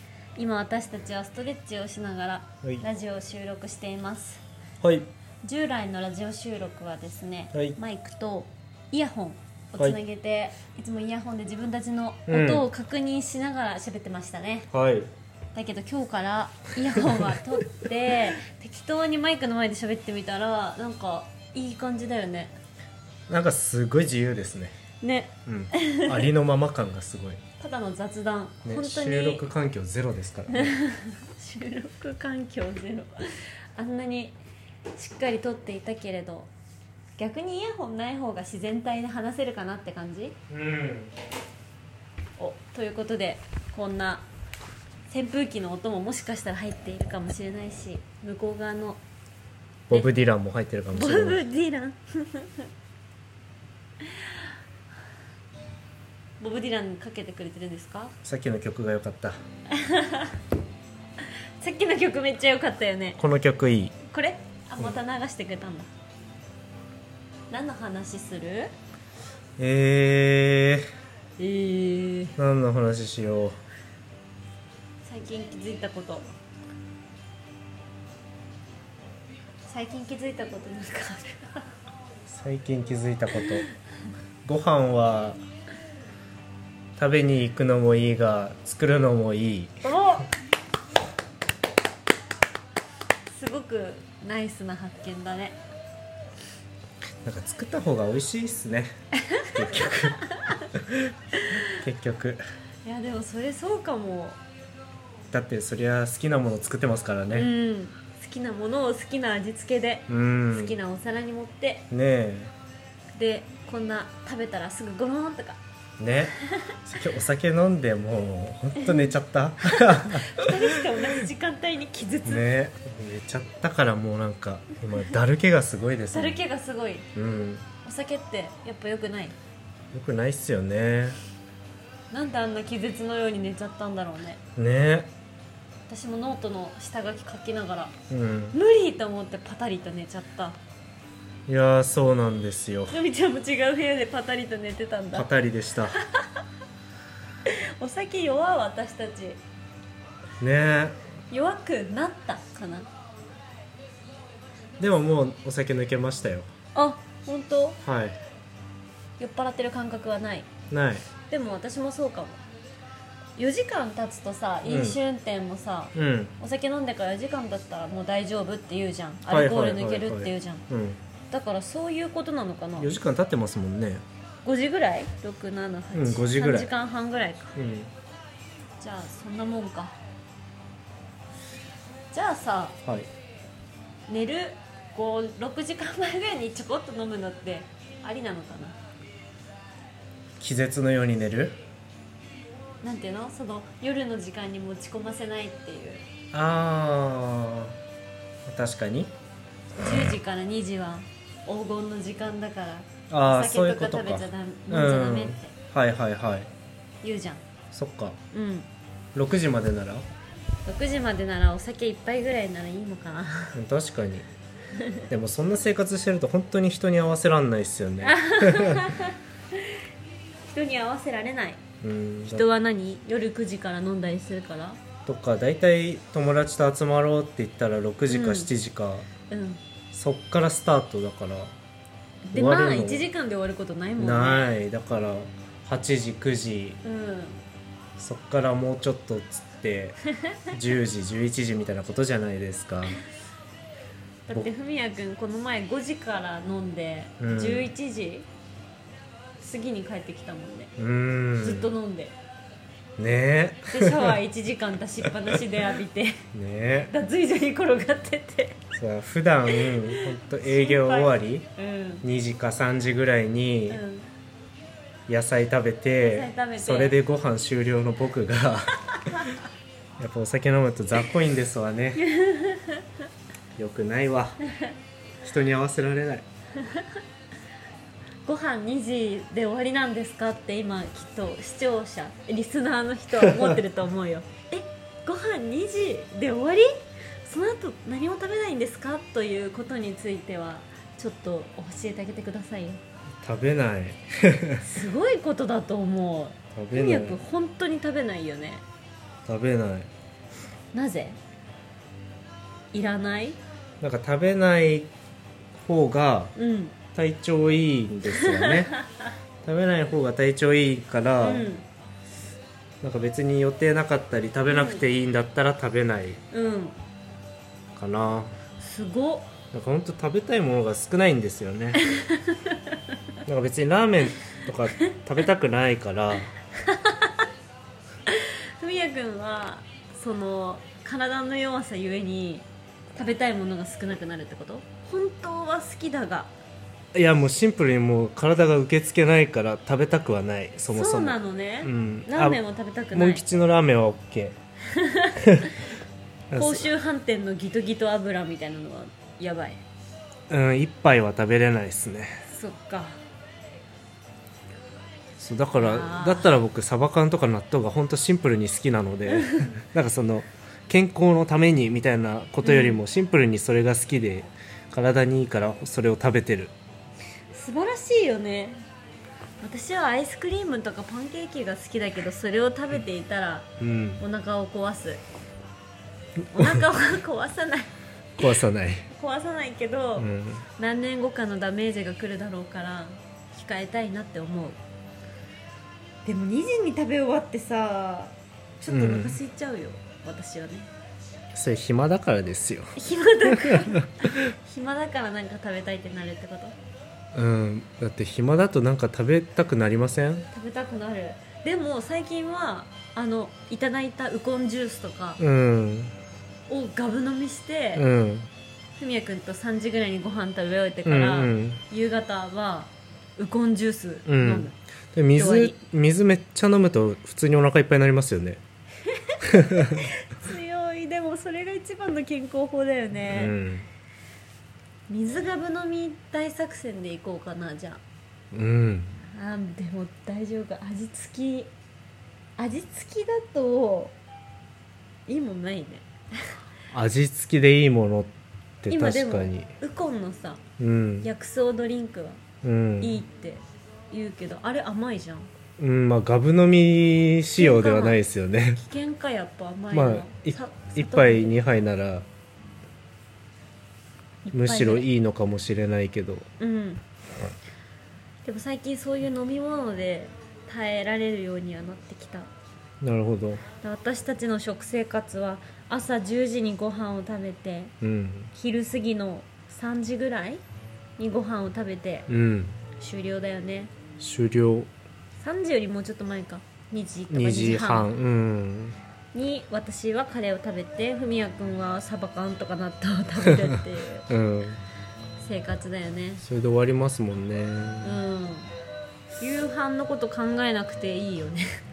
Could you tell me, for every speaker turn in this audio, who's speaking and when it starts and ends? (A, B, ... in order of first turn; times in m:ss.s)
0:00.4-0:04.4 A
0:04.8-0:05.1 B
0:05.4-0:14.7 A
0:07.5-0:07.8 B
0:12.3-0:12.7 B
0:14.7-0:15.1 B
0:15.5-0:22.5 A
0:23.3-0:24.7 B
0:25.0-0:26.3 A
0:25.4-0:27.4 B
0:27.6-0:29.5 A
0:28.6-0:30.7 B
0:30.5-0:34.4 A
0:34.9-0:36.5 A
0:37.2-0:40.4 A
0:40.5-0:41.1 B
0:42.4-0:44.2 A
0:45.1-0:49.0 A
0:49.9-0:51.4 B
0:50.9-0:52.7 A
0:54.0-0:54.4 A
0:56.4-0:58.1 A
0:58.2-0:59.4 B
0:59.7-1:00.4 A
1:01.6-1:03.2 A
1:03.2-1:03.9 B
1:04.1-1:05.9 A
1:07.5-1:08.7 A
1:09.6-1:10.8 B
1:11.4-1:12.4 A
1:12.4-1:13.6 B
1:15.0-1:16.3 A
1:19.7-1:21.7 A
1:22.3-1:23.6 B
1:24.4-1:25.4 B
1:27.0-1:29.7 B
1:29.8-1:30.3 A
1:33.3-1:35.6 A
1:37.2-1:38.9 B
1:39.2-1:40.6 A
1:39.4-1:40.2 B
1:40.7-1:41.1 B
1:41.4-1:41.7 A
1:41.6-1:42.4 B
1:42.8-1:44.4 A
1:45.3-1:47.5 B
1:47.3-1:51.9 A
1:50.1-1:50.8 B
1:51.9-1:52.5 B
1:53.2-1:55.6 A
1:56.0-2:01.0 B
1:58.8-1:59.1 A
1:59.6-2:02.4 A
2:02.2-2:06.4 B
2:06.1-2:07.1 A
2:07.1-2:07.6 B
2:07.8-2:09.4 A
2:09.9-2:11.2 B
2:12.1-2:14.4 A
2:14.6-2:15.1 B
2:15.9-2:17.9 A
2:18.1-2:18.6 B
2:18.5-2:20.6 A
2:21.5-2:22.9 B
2:22.9-2:25.3 A
2:25.1-2:26.0 B
2:26.0-2:26.3 A
2:27.4-2:29.4 A
2:30.4-2:30.9 B
2:31.3-2:32.9 A
2:34.8-2:36.5 B
2:36.7-2:37.8 A
2:37.8-2:38.2 B
2:39.2-2:40.5 A
2:40.7-2:41.0 B
2:41.3-2:42.4 A
2:43.4-2:50.6 A
2:44.6-2:45.0 B
2:45.9-2:46.3 B
2:49.3-2:51.0 B
2:51.3-2:53.0 A
2:52.8-2:54.0 B
2:54.4-2:57.5 A
2:55.9-2:56.7 B
2:57.6-2:57.9 B
2:58.8-3:00.0 A
3:02.1-3:02.7 A
3:04.1-3:08.8 A
3:10.4-3:11.6 B
3:12.8-3:16.0 A
3:16.3-3:17.8 B
3:18.4-3:19.1 B
3:19.8-3:25.5 A
3:23.1-3:26.5 B
3:27.0-3:27.4 A
3:27.7-3:28.2 B
3:28.3-3:28.7 A
3:29.1-3:30.0 B
3:30.6-3:33.5 A
3:33.5-3:34.2 B
3:34.8-3:35.0 A
3:35.1-3:39.0 B
3:38.0-3:39.8 A
3:40.4-3:41.6 A
3:41.8-3:42.4 B
3:42.3-3:44.8 A
3:45.0-3:49.1 B
3:48.1-3:48.5 A
3:49.3-3:49.6 A
3:49.9-3:51.5 B
3:52.2-3:54.5 A
3:52.3-3:53.0 B
3:54.0-3:56.8 B
3:56.8-3:57.4 A
3:58.0-4:03.0 B
4:04.3-4:08.3 A
4:07.2-4:07.7 B
4:09.4-4:10.7 A
4:10.8-4:11.7 B
4:11.4-4:12.1 A
4:13.0-4:14.2 B
4:13.7-4:16.2 A
4:16.3-4:16.9 B
4:16.9-4:18.6 A
4:18.7-4:21.5 B
4:19.5-4:22.0 A
4:22.0-4:23.8 B
4:23.7-4:24.1 A
4:25.1-4:29.1 B
4:26.0-4:27.0 A
4:30.0-4:32.0 B
4:32.0-4:32.8 A
4:33.6-4:34.4 B
4:35.2-4:36.2 B
4:36.6-4:37.0 A
4:38.2-4:46.7 A
4:47.2-4:52.8 A
4:53.2-4:54.6 B
4:54.6-4:58.6 A
4:56.5-4:57.2 B
4:59.2-4:59.9 B
5:00.7-5:01.2 A
5:02.7-5:03.4 A
5:03.8-5:04.9 B
5:05.6-5:06.3 B
5:06.4-5:06.7 A
5:06.9-5:08.7 B
5:08.1-5:09.0 A
5:09.4-5:11.5 B
5:11.2-5:11.6 A
5:12.8-5:16.2 B
5:14.5-5:14.8 A
5:16.3-5:16.8 A
5:17.7-5:18.3 B
5:18.6-5:19.3 A
5:19.5-5:21.8 B
5:21.8-5:22.8 A
5:23.2-5:26.3 B
5:26.6-5:27.2 A
5:28.0-5:36.3 A
5:36.9-5:42.4 B
5:40.7-5:43.2 A
5:42.9-5:44.3 B
5:44.7-5:45.5 A
5:45.2-5:45.5 B
5:46.3-5:46.7 B
5:46.3-5:49.6 A
5:50.3-5:52.2 B
5:52.3-5:53.0 A
5:55.2-6:06.5 B
5:55.6-5:56.3 A
5:59.1-5:59.5 A
6:02.4-6:02.8 A
6:07.3-6:08.6 A
6:09.4-6:15.0 A
6:13.6-6:14.0 B
6:16.3-6:17.7 A
6:18.2-6:18.9 B
6:18.9-6:24.6 A
6:20.0-6:20.4 B
6:26.0-6:30.7 A
6:28.7-6:29.2 B
6:31.3-6:32.7 B
6:32.8-6:36.5 A
6:33.2-6:34.0 B
6:37.1-6:40.3 B
6:40.3-6:45.2 A
6:45.2-6:45.9 B
6:46.5-6:47.8 A
6:47.7-6:48.3 B
6:48.8-6:54.5 A
6:50.8-6:51.6 B
6:54.1-6:58.4 B
6:55.1-6:55.6 A
6:58.8-7:03.3 A
6:59.2-6:59.8 B
7:03.1-7:03.7 B
7:04.9-7:07.8 A
7:08.3-7:09.0 B
7:09.1-7:11.5 A
7:12.4-7:13.9 A
7:15.1-7:16.3 A
7:16.7-7:18.1 B
7:18.6-7:19.5 B
7:18.7-7:20.4 A
7:20.6-7:21.1 B
7:21.0-7:22.2 A
7:22.4-7:23.0 B
7:22.8-7:25.3 A
7:25.6-7:28.6 B
7:27.4-7:28.0 A
7:28.6-7:31.3 A
7:29.7-7:32.0 B
7:34.2-7:34.9 A
7:34.3-7:36.2 B
7:36.4-7:36.8 A
7:38.2-7:42.3 A
7:42.8-7:43.4 B
7:43.6-7:47.7 A
7:47.8-7:48.3 B
7:48.3-7:50.4 A
7:51.0-7:52.1 A
7:52.1-7:52.6 B
7:52.8-7:53.7 A
7:54.0-7:54.7 B
7:55.2-7:57.9 A
7:57.1-7:58.8 B
7:59.1-8:04.1 A
8:03.3-8:03.5 B
8:04.1-8:04.6 B
8:05.2-8:06.2 A
8:06.2-8:08.0 B
8:07.8-8:08.5 A
8:09.2-8:11.4 A